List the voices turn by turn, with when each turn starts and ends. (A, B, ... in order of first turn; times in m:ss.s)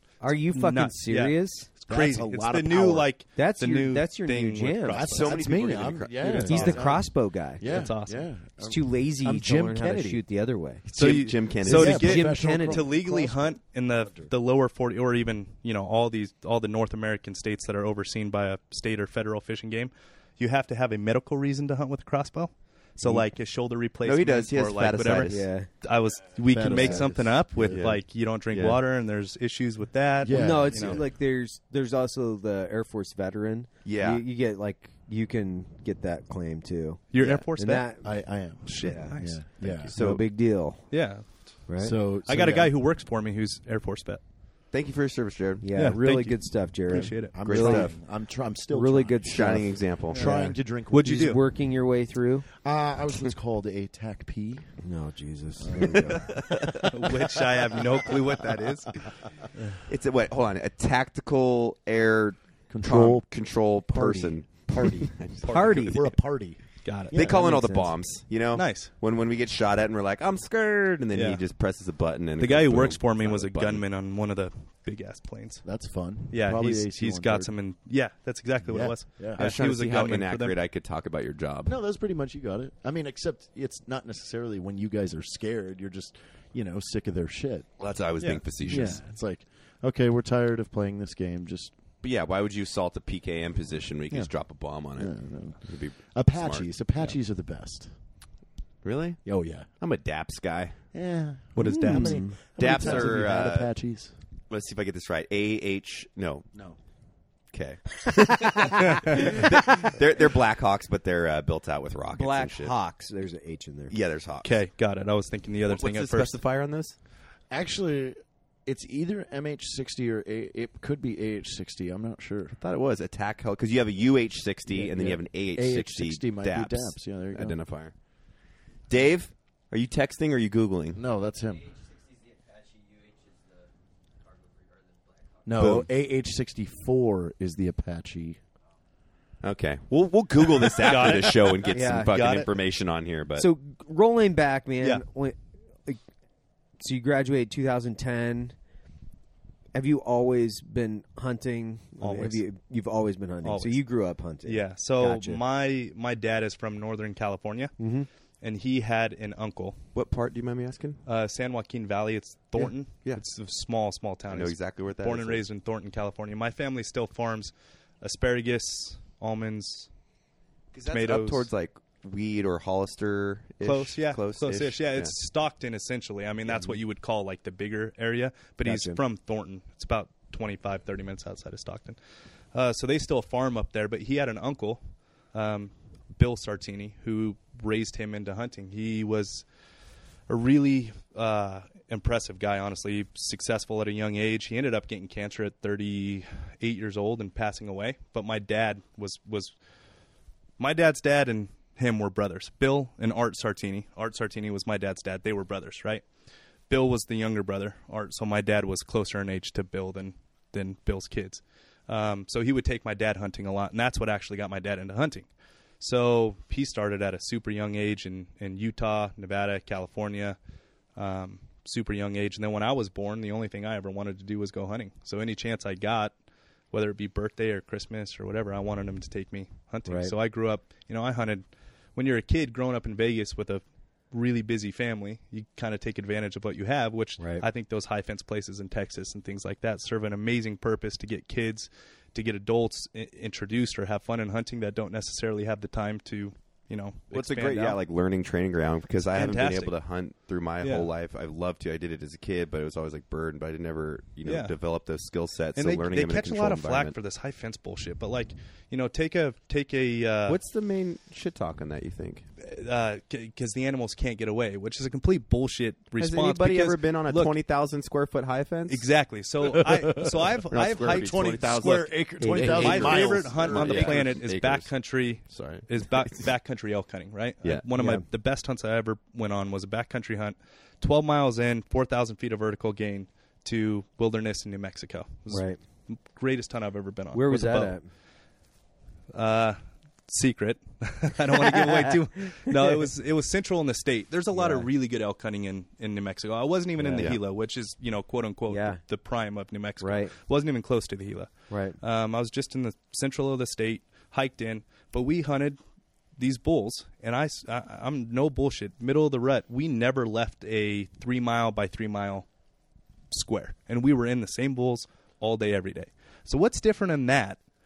0:00.2-0:01.7 A
0:00.5-0:05.3 B
0:01.9-0:03.1 C
0:03.4-0:05.3 A
0:04.9-0:07.1 C
0:05.1-0:07.0 D
0:06.2-0:07.9 A
0:07.6-0:10.2 C
0:07.6-0:08.3 B
0:08.6-0:10.9 A
0:10.9-0:12.2 D
0:10.9-0:31.0 B
0:11.6-0:14.3 C
0:11.7-0:13.0 A
0:24.0-0:25.4 D
0:25.2-0:25.7 A
0:26.5-0:27.8 C
0:26.8-0:27.0 A
0:27.7-0:28.8 D
0:30.2-0:31.0 C
0:30.3-0:38.1 A
0:33.8-0:34.2 D
0:37.1-0:37.9 B
0:38.0-0:39.9 C
0:38.6-0:39.4 B
0:38.8-0:40.8 A
0:39.6-0:40.2 D
0:40.9-0:41.3 B
0:41.7-0:41.9 A
0:41.8-0:42.7 C
0:42.2-0:44.2 B
0:44.7-0:45.7 D
0:45.6-0:47.9 A
0:45.7-0:47.4 B
0:46.9-0:51.3 C
0:47.4-0:48.0 D
0:48.7-0:52.5 A
0:49.2-0:50.4 D
0:50.1-0:51.4 B
0:52.6-0:54.7 C
0:54.8-0:56.5 A
0:55.6-0:57.2 C
0:56.1-0:56.8 D
0:56.9-0:59.0 B
0:59.8-1:06.0 D
1:02.7-1:03.2 C
1:03.9-1:05.1 C
1:05.4-1:05.9 B
1:05.4-1:06.0 A
1:05.8-1:07.6 C
1:06.8-1:07.1 B
1:07.1-1:13.8 D
1:07.1-1:07.9 A
1:08.5-1:08.9 B
1:11.1-1:11.4 B
1:12.4-1:15.6 B
1:15.6-1:17.5 C
1:16.3-1:20.6 B
1:18.6-1:19.4 C
1:19.4-1:21.7 D
1:21.6-1:27.7 C
1:27.8-1:29.0 D
1:28.2-1:28.4 B
1:28.6-1:31.7 C
1:32.0-1:36.7 D
1:35.0-1:37.9 C
1:38.8-1:39.2 D
1:39.2-1:39.7 C
1:39.8-1:40.7 D
1:40.9-1:44.1 C
1:41.6-1:42.3 B
1:41.6-1:42.9 A
1:42.6-1:43.7 D
1:44.5-1:46.5 D
1:47.5-1:52.7 D
1:48.4-1:49.9 A
1:48.8-1:49.3 B
1:52.1-1:53.9 A
1:53.9-1:54.5 D
1:54.4-1:56.4 B
1:55.7-1:57.0 D
1:57.5-2:02.6 C
2:02.6-2:07.9 D
2:04.7-2:07.6 C
2:08.9-2:11.0 D
2:10.9-2:11.7 C
2:15.4-2:18.4 C
2:15.6-2:15.9 D
2:19.4-2:23.5 D
2:20.8-2:22.5 B
2:21.7-2:22.2 A
2:23.4-2:26.0 A
2:26.8-2:28.5 A
2:29.7-2:35.4 A
2:32.0-2:32.4 B
2:33.4-2:33.8 B
2:34.4-2:37.7 B
2:37.8-2:38.1 A
2:38.4-2:39.8 B
2:39.9-2:41.0 D
2:41.0-2:49.9 B
2:42.9-2:43.2 D
2:44.3-2:45.4 D
2:50.7-2:55.1 D
2:50.8-2:51.5 B
2:53.6-3:02.0 B
2:58.6-2:59.0 A
3:02.5-3:04.8 B
3:05.3-3:09.4 B
3:10.3-3:19.5 B
3:20.6-3:26.0 B
3:26.7-3:35.3 B
3:35.8-3:40.4 B
3:41.0-3:46.1 B
3:46.7-4:07.8 B
3:49.9-3:50.1 A
3:57.2-3:57.4 A
4:07.1-4:16.9 D
4:09.1-4:09.7 B
4:10.6-4:10.9 B
4:14.2-4:14.5 B
4:15.6-4:20.4 B
4:20.3-4:22.2 D
4:22.4-4:27.3 B
4:26.0-4:28.9 D
4:28.7-4:31.4 B
4:29.4-4:34.2 C
4:30.5-4:34.7 D
4:32.2-4:32.6 A
4:32.5-4:47.8 B
4:35.3-4:36.2 D
4:37.7-4:38.0 A
4:45.3-4:45.6 A
4:47.1-4:47.8 A
4:49.1-5:01.3 B
4:51.3-4:52.8 A
4:54.3-4:54.7 A
4:56.8-4:57.2 A
4:58.5-4:58.8 A
4:59.8-5:00.1 A
5:01.5-5:01.8 A
5:01.8-5:05.6 B
5:06.2-5:12.2 B
5:13.1-5:17.4 B